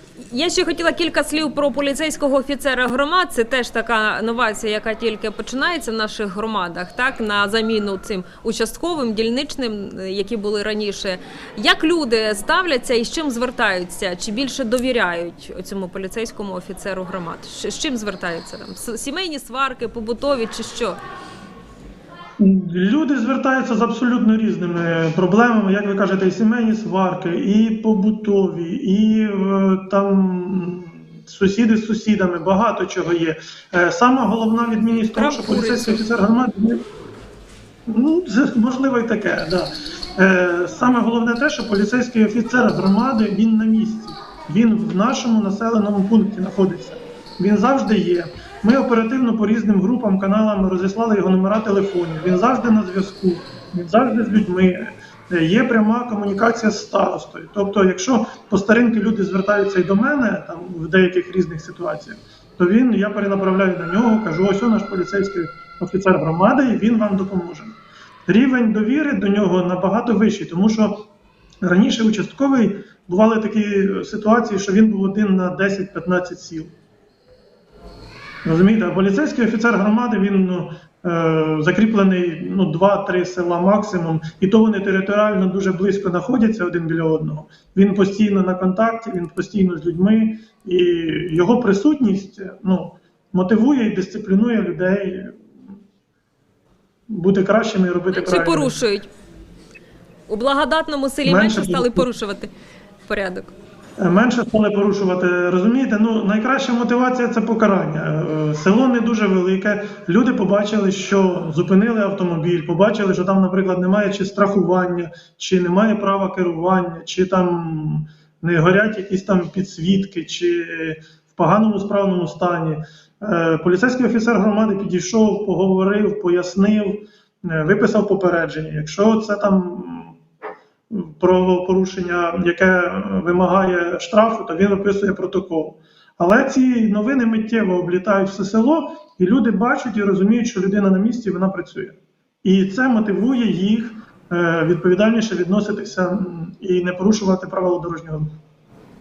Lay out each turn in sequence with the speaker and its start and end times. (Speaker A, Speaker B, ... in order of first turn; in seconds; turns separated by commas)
Speaker A: 0.2-21.0, Speaker B: 22.4-36.8, Speaker A: 35.1-36.0, Speaker B: 37.9-71.0, Speaker B: 71.6-76.7, Speaker B: 78.4-95.4, Speaker B: 97.1-98.8, Speaker A: 98.1-99.1, Speaker A: 100.3-102.5, Speaker B: 101.2-102.1, Speaker A: 103.1-103.5, Speaker B: 104.0-130.2, Speaker B: 130.9-148.3